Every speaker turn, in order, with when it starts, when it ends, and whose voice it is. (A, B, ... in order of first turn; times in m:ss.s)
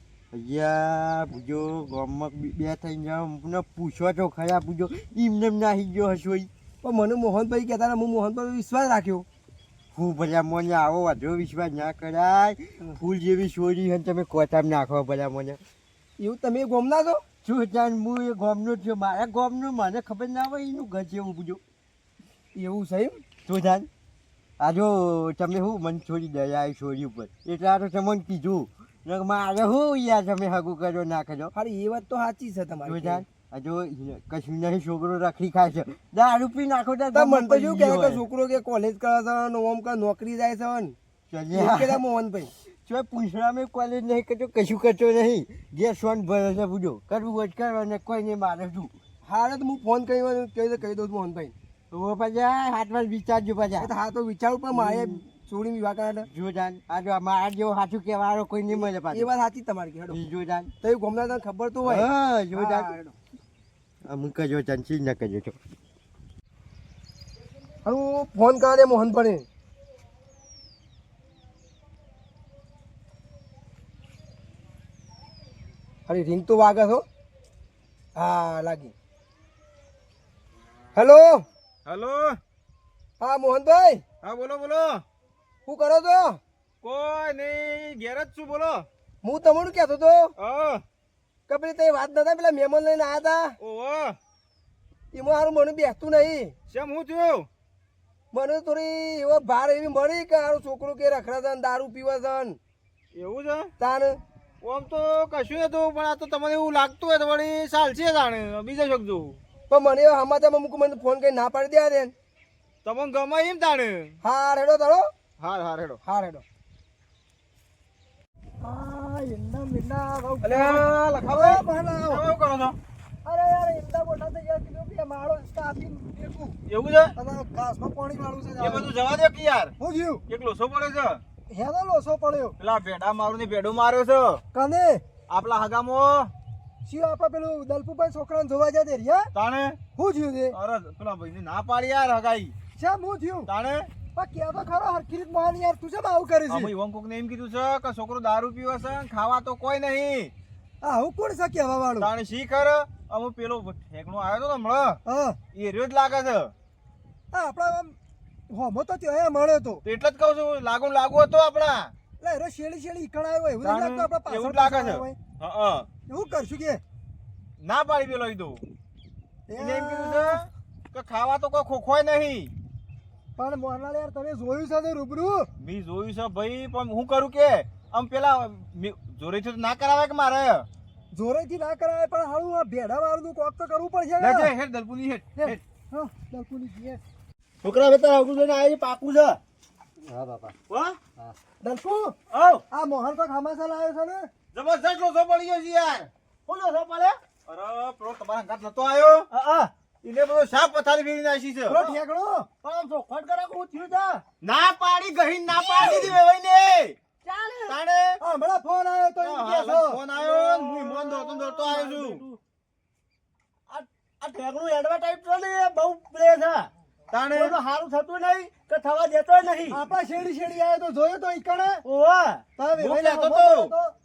0:00.3-0:06.5 A
0:06.8-0:09.2 B
0:09.9-0:15.6 A
0:16.2-0:17.2 B
0:17.4-0:21.6 A
0:22.5-0:23.2 B
0:23.4-0:23.9 A
0:24.6-0:31.5 A
0:31.5-0:33.2 B
0:32.8-0:38.2 A
0:37.1-0:41.0 B
0:41.3-0:42.0 A
0:41.5-0:42.5 B
0:42.6-0:48.9 A
0:49.2-0:51.5 B
0:51.9-0:53.9 A
0:53.8-0:56.3 B
0:54.7-0:55.2 A
0:56.3-0:59.3 A
0:58.7-1:00.2 B
1:00.1-1:00.7 A
1:00.8-1:02.1 B
1:01.8-1:03.0 A
1:02.6-1:03.1 B
1:04.0-1:05.6 A
1:07.8-1:09.4 B
1:16.1-1:17.0 B
1:18.1-1:18.9 B
1:20.9-1:21.4 B
1:21.8-1:22.4 C
1:23.2-1:24.0 B
1:24.2-1:25.0 C
1:25.6-1:26.4 B
1:26.8-1:28.9 C
1:29.2-1:30.3 B
1:30.4-1:30.8 C
1:31.5-1:33.6 B
1:33.6-1:34.2 C
1:35.1-1:36.5 B
1:36.7-1:37.5 C
1:38.3-1:42.6 B
1:43.1-1:43.7 C
1:43.8-1:44.2 B
1:44.6-1:49.4 C
1:49.7-1:52.1 B
1:52.8-1:54.2 C
1:54.2-1:55.1 B
1:55.4-1:56.0 C
1:56.0-1:56.4 B
1:58.6-2:02.3 D
2:00.4-2:02.8 C
2:03.2-2:06.6 D
2:06.7-2:07.1 C
2:07.2-2:08.9 D
2:08.6-2:09.7 C
2:09.8-2:10.2 D
2:10.3-2:11.2 C
2:11.5-2:12.6 D
2:12.6-2:14.4 C
2:14.5-2:15.0 D
2:15.3-2:16.3 C
2:16.8-2:19.3 D
2:19.3-2:19.8 C
2:20.0-2:20.6 D
2:20.5-2:22.5 C
2:22.8-2:23.5 D
2:23.4-2:23.9 C
2:24.1-2:26.7 D
2:26.5-2:30.3 C
2:30.8-2:32.1 D
2:32.0-2:35.0 C
2:35.0-2:35.4 D
2:35.5-2:36.5 C
2:37.3-2:38.0 D
2:38.5-2:39.8 D
2:39.8-2:41.9 C
2:42.2-2:45.2 D
2:43.6-2:45.9 C
2:46.1-2:46.8 D
2:47.6-2:48.6 C
2:49.5-2:50.4 D
2:49.6-2:52.5 C
2:53.4-2:55.5 D
2:55.6-3:00.6 C
3:01.1-3:04.5 D
3:04.2-3:05.6 C
3:05.4-3:07.0 D
3:07.6-3:09.4 E
3:10.0-3:10.5 D
3:10.7-3:11.3 E
3:11.6-3:12.2 D
3:12.3-3:12.6 E
3:12.7-3:14.3 D
3:14.5-3:16.1 C
3:16.5-3:17.2 E
3:17.4-3:19.3 C
3:19.3-3:19.7 E
3:20.0-3:21.8 C
3:21.7-3:22.5 D
3:21.7-3:22.0 E
3:22.6-3:24.2 E
3:24.4-3:27.0 C
3:25.5-3:26.2 E
3:27.2-3:27.8 E
3:27.7-3:28.2 C
3:28.2-3:30.0 D
3:29.2-3:32.2 C
3:30.1-3:32.4 E
3:33.7-3:36.7 E
3:37.1-3:37.6 C
3:37.3-3:39.8 E
3:39.7-3:41.8 D
3:41.8-3:42.4 E
3:42.6-3:43.9 D
3:42.8-3:43.7 C